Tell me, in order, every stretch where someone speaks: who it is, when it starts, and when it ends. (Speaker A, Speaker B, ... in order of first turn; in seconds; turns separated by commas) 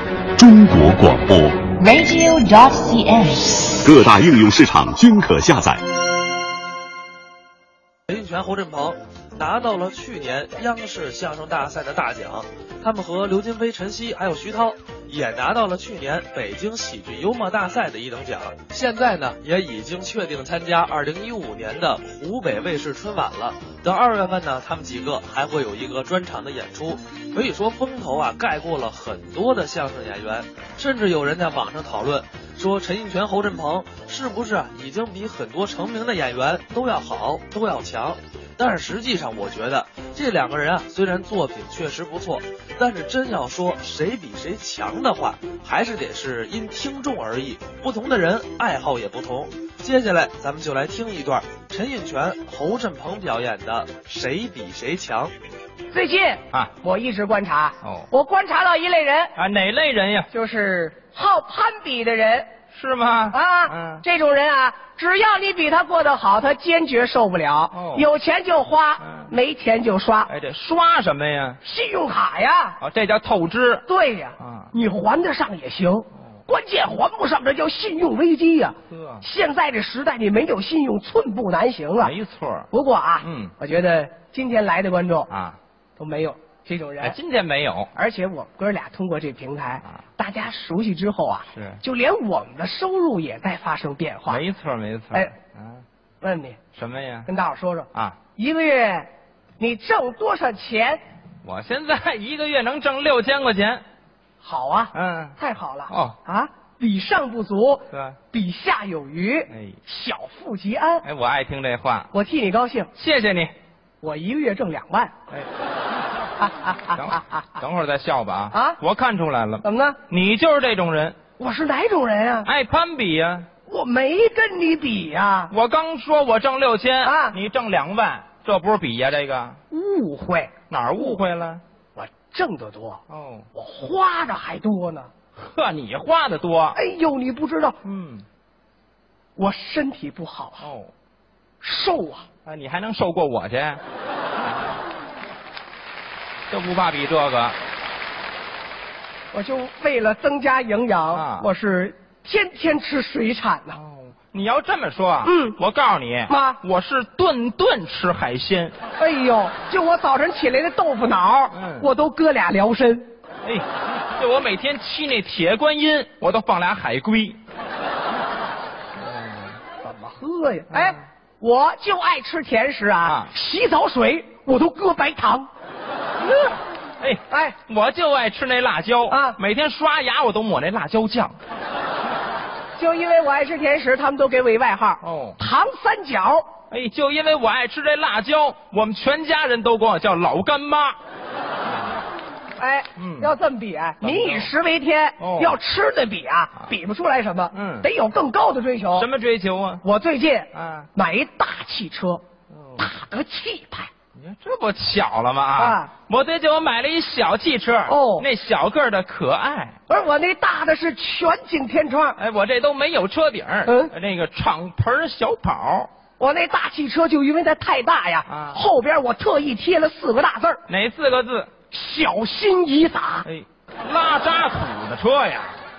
Speaker A: 0.4-1.7, Speaker B: 1.8-3.8, Speaker A: 3.8-5.8, Speaker C: 8.1-55.3, Speaker D: 55.9-59.3, Speaker E: 57.8-58.1, Speaker E: 59.4-60.3, Speaker D: 60.3-62.5, Speaker E: 62.7-64.0, Speaker D: 63.3-70.3, Speaker E: 67.7-68.1, Speaker E: 69.0-69.3, Speaker E: 70.3-71.6, Speaker D: 71.6-72.8, Speaker E: 72.8-73.8, Speaker D: 73.8-82.1, Speaker E: 74.4-74.7, Speaker E: 78.9-79.2, Speaker E: 82.0-82.7, Speaker D: 82.7-85.3, Speaker E: 83.2-83.5, Speaker E: 85.3-85.6, Speaker D: 86.0-87.2, Speaker E: 87.0-87.9, Speaker D: 87.9-94.4, Speaker E: 91.5-91.8, Speaker E: 94.3-95.8, Speaker D: 96.2-96.6, Speaker E: 96.8-97.3, Speaker D: 97.2-101.0, Speaker E: 101.4-103.8, Speaker D: 104.4-111.0, Speaker E: 104.9-105.4, Speaker E: 105.9-106.2, Speaker E: 107.9-108.2, Speaker E: 109.5-109.8, Speaker E: 111.0-112.1, Speaker D: 112.1-112.9, Speaker E: 112.9-113.5, Speaker D: 114.0-115.1, Speaker D: 116.4-117.5, Speaker E: 117.0-121.2, Speaker D: 118.5-118.8, Speaker D: 119.6-120.0, Speaker D: 121.4-122.5, Speaker E: 122.4-123.5, Speaker D: 123.7-125.5, Speaker E: 125.5-129.6, Speaker D: 127.0-127.4, Speaker D: 129.7-131.2, Speaker E: 130.7-131.6, Speaker D: 131.9-133.0, Speaker E: 133.1-133.5, Speaker D: 133.5-135.1, Speaker E: 135.4-136.8, Speaker D: 136.7-137.8, Speaker E: 137.8-138.2, Speaker D: 139.3-140.7, Speaker E: 140.6-140.9, Speaker D: 141.6-142.3, Speaker E: 142.4-143.8, Speaker E: 146.5-147.6, Speaker D: 149.3-153.8, Speaker E: 151.1-151.5, Speaker E: 153.7-158.8, Speaker D: 155.2-155.6, Speaker D: 156.3-156.6, Speaker D: 159.0-163.1, Speaker E: 161.5-161.9, Speaker E: 164.2-167.4, Speaker E: 169.0-169.6, Speaker D: 169.8-175.5, Speaker E: 170.7-171.0, Speaker E: 173.0-173.3, Speaker E: 176.2-181.4, Speaker D: 177.3-177.6, Speaker D: 179.1-179.4, Speaker D: 182.8-186.5, Speaker E: 185.0-185.4, Speaker E: 186.7-191.0, Speaker D: 192.6-199.1, Speaker E: 192.9-193.3, Speaker E: 194.0-194.5, Speaker E: 195.2-195.6, Speaker E: 197.5-197.9, Speaker E: 198.9-199.8, Speaker D: 199.8-202.2, Speaker E: 200.5-200.9, Speaker E: 202.5-202.9, Speaker D: 202.8-203.9, Speaker E: 204.1-209.8, Speaker D: 205.6-205.9, Speaker D: 207.9-208.3, Speaker D: 209.9-212.2, Speaker E: 212.2-215.9, Speaker D: 213.7-213.9, Speaker D: 216.2-220.6, Speaker E: 218.3-218.6, Speaker E: 220.7-221.5, Speaker D: 221.7-223.2, Speaker E: 223.2-225.6